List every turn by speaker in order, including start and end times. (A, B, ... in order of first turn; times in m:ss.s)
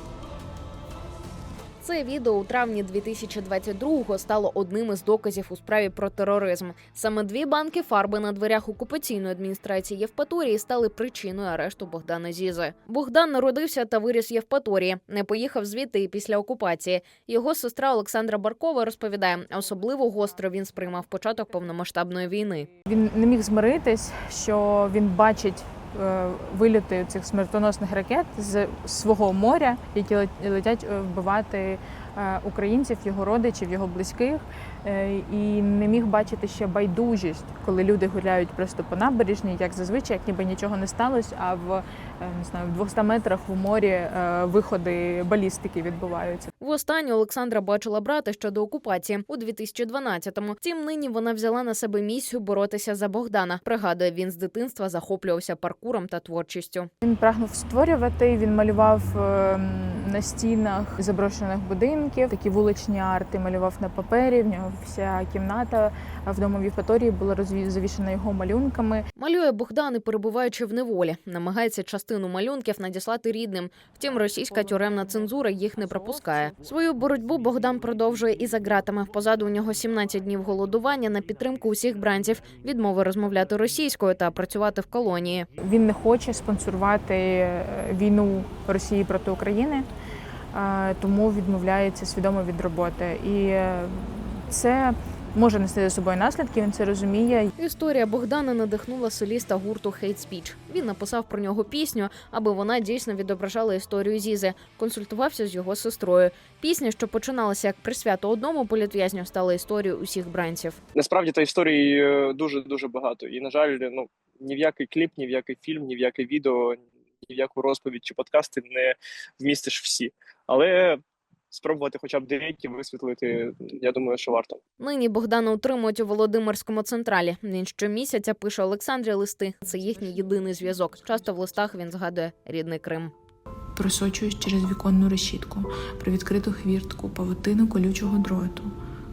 0:01.8-0:22.7 A
0:22.9-0:46.5 B
0:46.6-0:56.9 A
0:57.0-1:09.0 B
1:09.2-1:25.5 A
1:14.5-1:16.5 B
1:25.6-1:29.8 B
1:30.5-1:37.5 B
1:37.6-1:50.8 A
1:51.0-2:01.0 C
2:01.5-2:04.6 C
2:04.8-2:13.1 A
2:13.7-2:18.8 D